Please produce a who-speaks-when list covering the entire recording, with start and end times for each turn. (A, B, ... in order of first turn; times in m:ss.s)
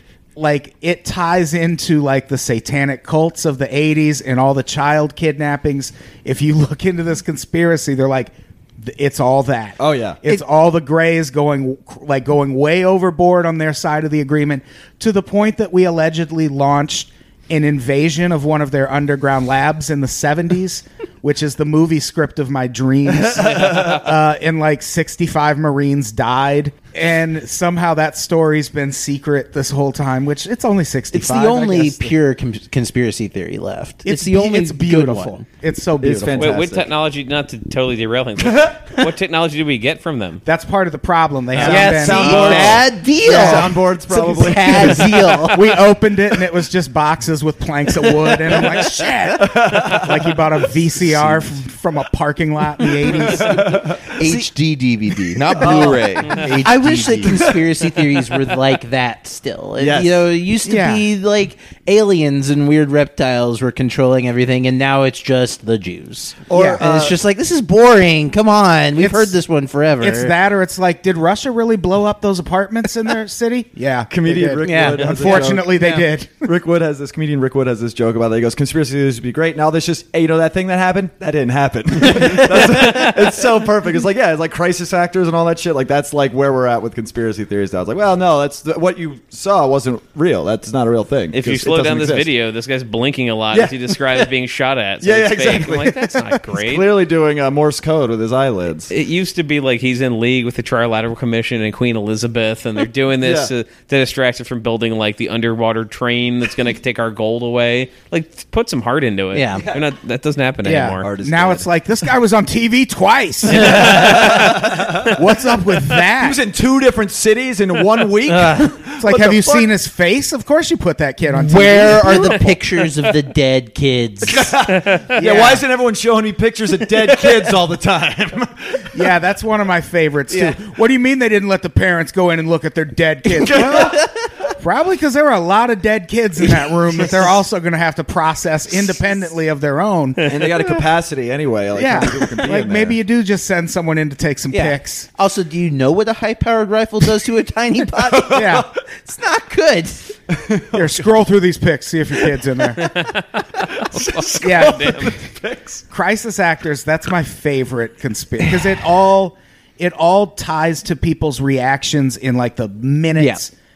0:00.4-0:32.2 A
0:09.8-0:10.2 B
0:23.3-0:23.9 B
0:23.7-0:24.1 C
0:31.1-0:35.4 D
0:34.0-0:36.6 A
0:36.0-0:36.9 B
0:36.4-0:40.4 C
0:40.4-0:43.9 A
0:41.5-0:45.8 B
0:41.6-0:45.6 D
0:44.7-0:45.0 A
0:45.5-0:53.8 A
0:48.0-0:51.5 B
0:52.8-0:54.2 B
0:54.1-0:57.4 E
0:54.2-0:54.5 D
0:55.5-0:56.5 B
0:55.6-0:56.0 D
0:56.6-1:10.3 D
0:57.3-0:58.0 B
0:59.8-1:00.3 B
1:00.6-1:01.0 A
1:06.5-1:07.2 B
1:06.5-1:06.8 A
1:09.0-1:09.4 A
1:10.0-1:16.5 A
1:14.1-1:32.3 B
1:14.6-1:15.7 D
1:22.2-1:22.8 D
1:22.9-1:23.2 C
1:31.3-1:36.9 C
1:33.5-1:34.3 B
1:35.0-1:38.9 B
1:38.9-1:51.1 C
1:43.2-1:43.5 B
1:49.3-1:49.6 D
1:50.6-1:56.4 A
1:51.0-1:51.7 B
1:53.5-1:54.5 D
1:53.9-1:55.2 B
1:56.0-1:59.7 B
1:58.3-1:58.7 D
1:59.0-2:02.4 A
2:01.3-2:04.5 D
2:04.2-2:09.1 B
2:04.8-2:05.0 C
2:05.2-2:05.7 A
2:08.9-2:20.3 A
2:13.4-2:14.2 D
2:13.4-2:14.0 B
2:20.3-2:23.0 B
2:21.8-2:25.1 A
2:24.5-2:30.2 D
2:28.0-2:28.7 B
2:28.3-2:28.7 A
2:30.4-2:30.8 B
2:30.7-2:32.9 A
2:32.8-2:35.1 C
2:33.7-2:35.8 B
2:34.4-2:35.2 A
2:35.9-2:43.5 A
2:43.2-2:43.4 D